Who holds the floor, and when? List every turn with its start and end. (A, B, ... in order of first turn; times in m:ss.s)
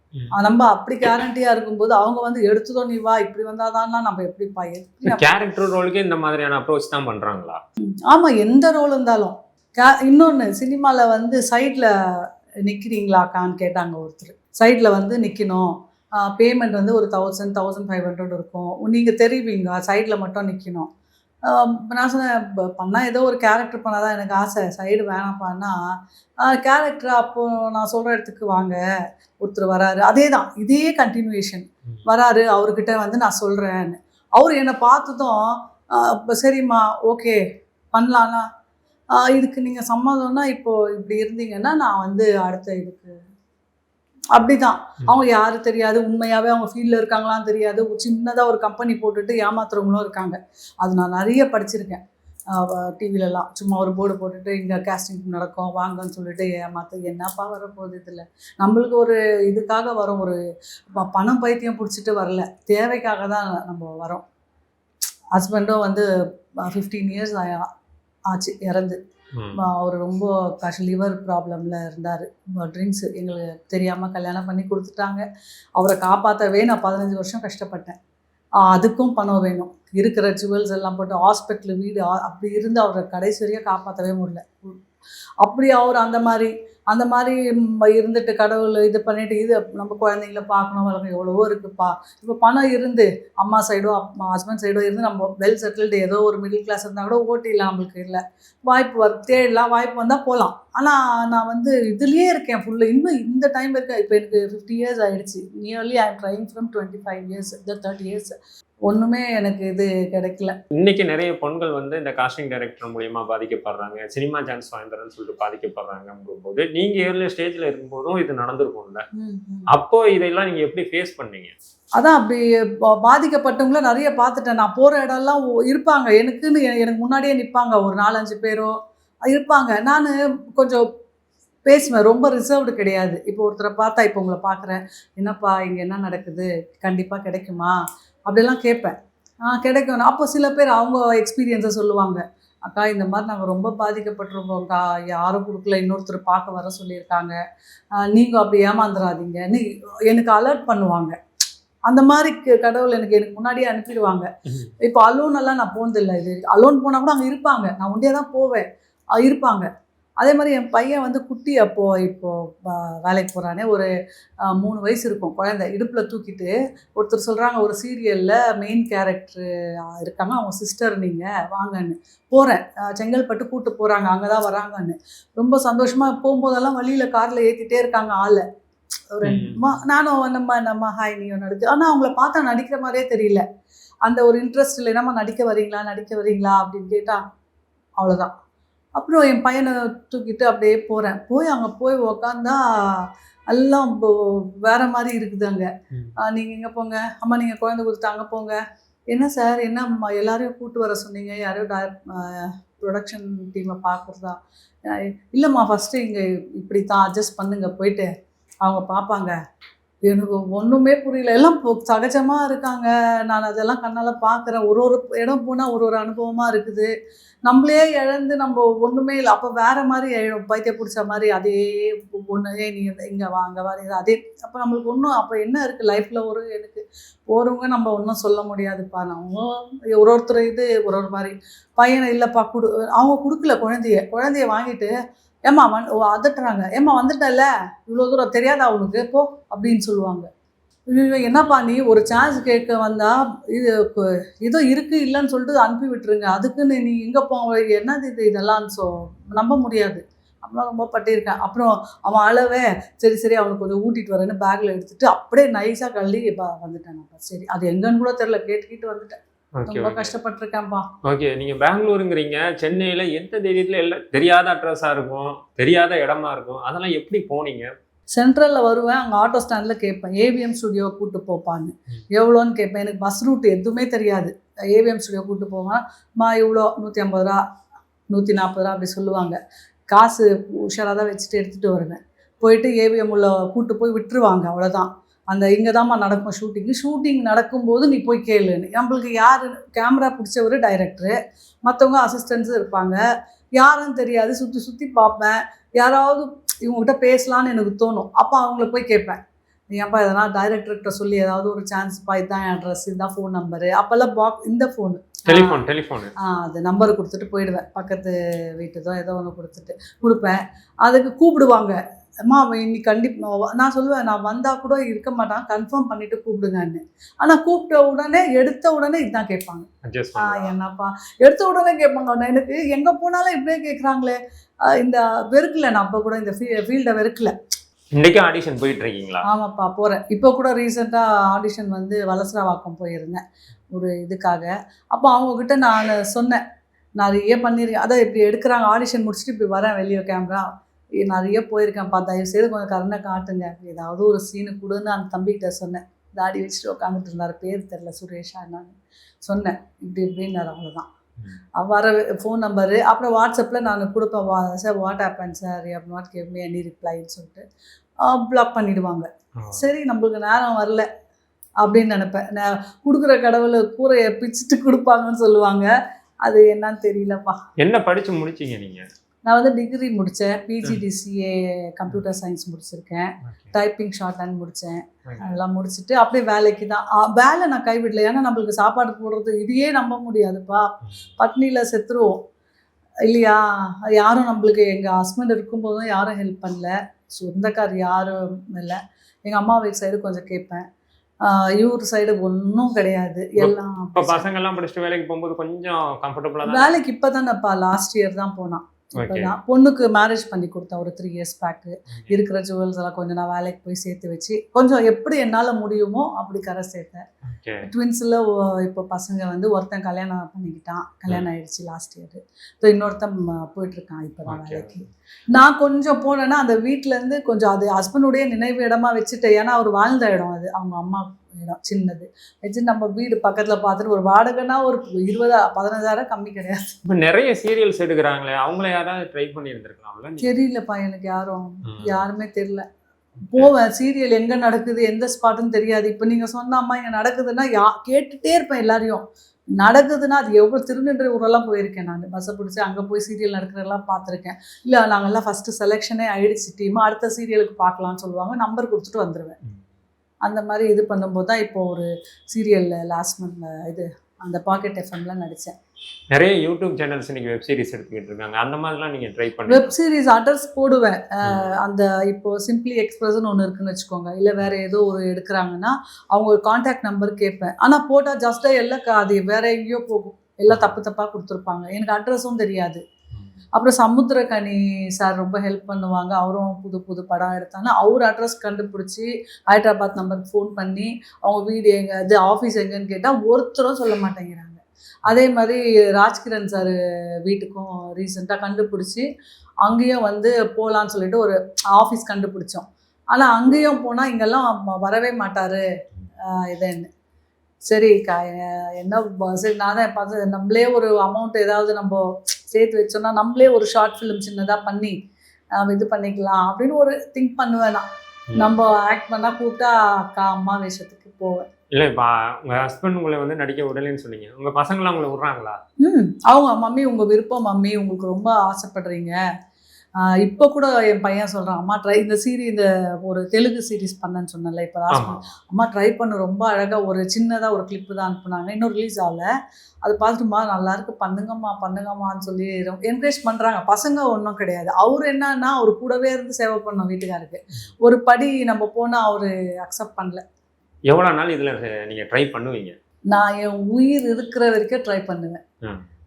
0:00.3-0:05.3 A
0:05.0-0:07.6 B
0:08.1-0:20.9 A
0:21.4-0:25.8 A
0:26.4-0:28.8 A
0:29.4-0:37.4 A
0:37.9-0:38.4 A
0:39.1-0:43.1 A
0:44.3-1:00.4 A
1:00.9-1:04.2 A
1:05.4-1:06.1 A
1:06.6-1:07.7 A
1:08.3-1:09.0 A
1:09.6-1:15.2 A
1:15.8-1:18.0 A
1:18.6-1:24.8 A
1:25.4-1:48.4 A
1:48.9-1:50.6 A
1:50.8-1:59.0 B
1:59.2-1:59.7 A
1:59.7-2:01.5 B
2:02.0-2:08.7 A
2:09.3-2:10.9 A
2:11.7-2:17.8 A
2:18.3-2:27.4 A
2:28.0-2:31.2 A
2:31.9-2:34.3 A
2:34.5-2:34.7 B
2:34.8-2:43.9 A
2:44.4-2:58.4 A
2:59.1-3:03.4 A
2:59.2-2:59.7 B
3:04.0-3:07.2 A
3:08.0-3:08.3 A
3:09.0-3:18.6 A
3:19.1-3:28.1 A
3:28.6-3:29.4 A
3:30.1-3:36.9 A
3:37.5-3:54.9 A
3:55.5-4:00.3 A
4:00.9-4:20.9 A
4:19.6-4:20.1 B
4:21.0-4:27.7 B
4:28.1-4:37.4 A
4:38.1-4:39.4 A
4:39.9-4:53.0 A
4:53.6-4:59.2 A
4:59.7-5:05.6 A
5:05.3-5:06.1 B
5:06.2-5:27.3 A
5:19.8-5:20.5 B
5:28.0-5:29.2 B
5:29.3-5:36.4 A
5:37.0-5:40.4 A
5:41.0-5:50.9 A
5:51.6-5:57.4 A
5:58.0-6:00.9 A
5:59.4-5:59.7 B
6:01.6-6:05.7 A
6:06.2-6:07.4 A
6:07.6-6:08.9 B
6:09.3-6:22.2 A
6:13.2-6:13.6 B
6:15.1-6:15.4 B
6:23.1-6:30.6 A
6:31.2-6:34.3 A
6:33.4-6:36.8 B
6:36.4-6:47.0 A
6:39.0-6:39.4 B
6:47.2-6:47.7 B
6:47.6-7:06.8 A
6:54.3-6:54.8 B
7:06.9-7:10.3 B
7:10.2-7:12.7 A
7:11.6-7:12.0 B
7:13.2-7:13.5 B
7:13.2-7:19.0 A
7:19.6-7:29.4 A
7:30.2-7:35.6 A
7:36.1-7:39.7 B
7:39.5-7:52.8 A
7:41.2-7:41.6 B
7:50.5-7:50.8 B
7:53.2-7:53.4 B
7:53.6-8:09.1 A
8:09.6-8:15.6 A
8:16.2-8:16.9 A
8:17.7-8:25.0 A
8:25.5-8:31.5 A
8:31.7-8:35.6 B
8:35.8-8:39.2 A
8:40.0-8:49.3 A
8:44.9-8:45.3 B
8:49.8-9:00.2 A
9:00.9-9:02.8 B
9:03.1-9:05.4 A
9:05.6-9:05.9 B